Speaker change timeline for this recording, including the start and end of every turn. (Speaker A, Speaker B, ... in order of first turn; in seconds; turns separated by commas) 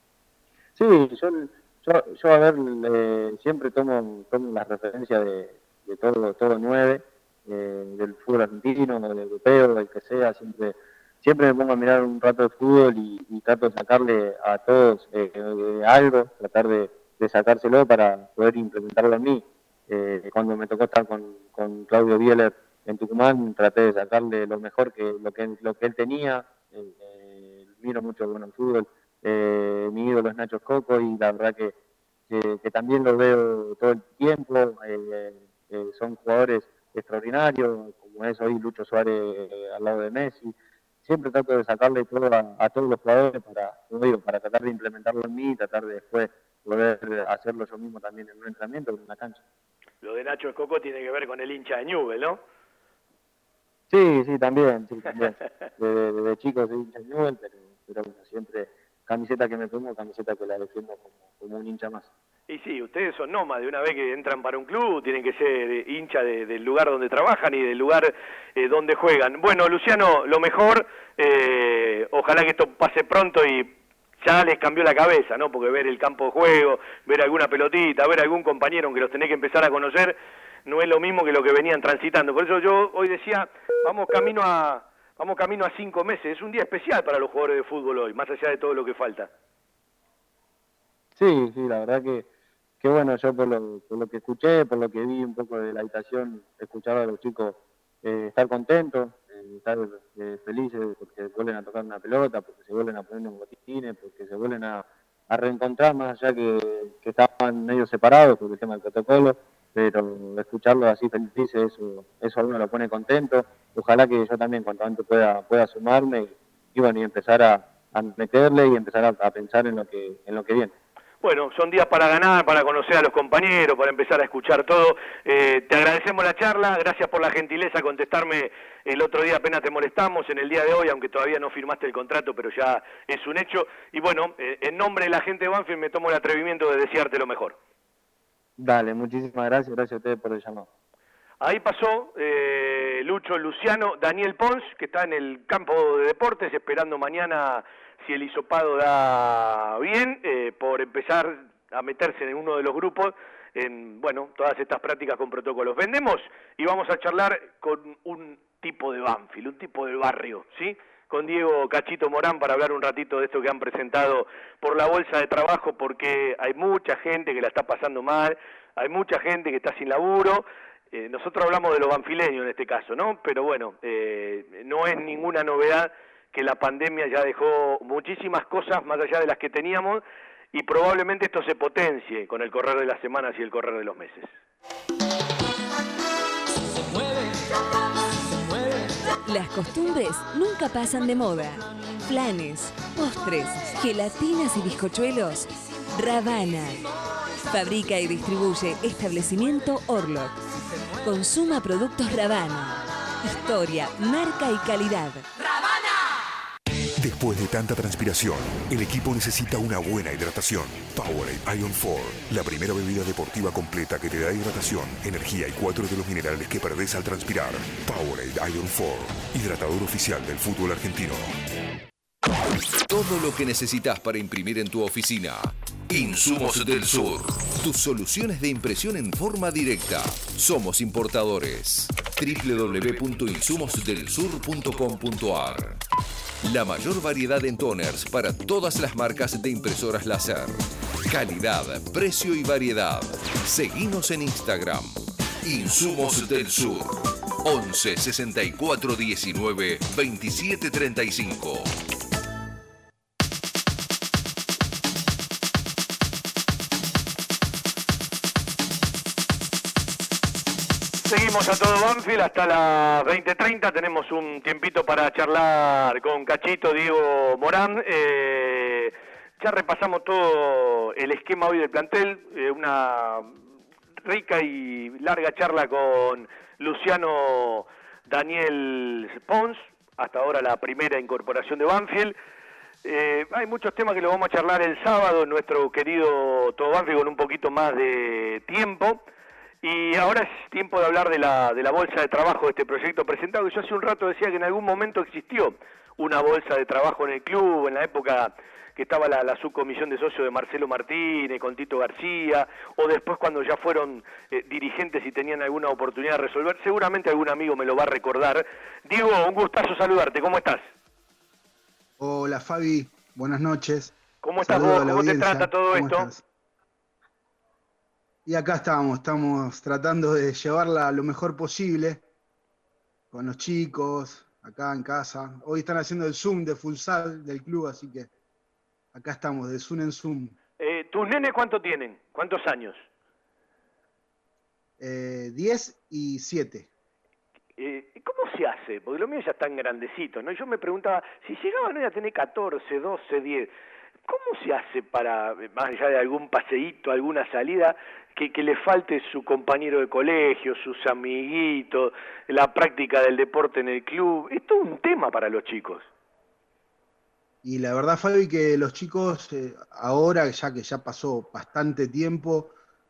Speaker A: 0.8-31.7, Speaker A: 32.3-49.4, Speaker B: 50.0-52.4, Speaker A: 53.9-62.1, Speaker B: 62.5-89.3, Speaker A: 91.2-92.3, Speaker A: 92.8-120.7, Speaker B: 121.2-137.6, Speaker A: 138.6-140.7, Speaker B: 141.4-180.0, Speaker B: 180.5-184.3, Speaker C: 189.2-196.8, Speaker C: 197.4-200.3, Speaker C: 201.0-205.2, Speaker D: 207.0-221.3, Speaker E: 222.8-235.8, Speaker E: 236.4-251.7, Speaker B: 261.0-273.3, Speaker B: 274.0-282.1, Speaker B: 282.8-289.0, Speaker B: 289.6-310.7, Speaker F: 312.0-316.2, Speaker B: 314.2-316.1, Speaker F: 318.2-322.0, Speaker F: 323.1-328.1, Speaker F: 328.9-330.3, Speaker B: 330.6-332.8, Speaker F: 334.8-336.7, Speaker B: 337.6-343.5, Speaker B: 344.1-355.9, Speaker F: 357.4-362.5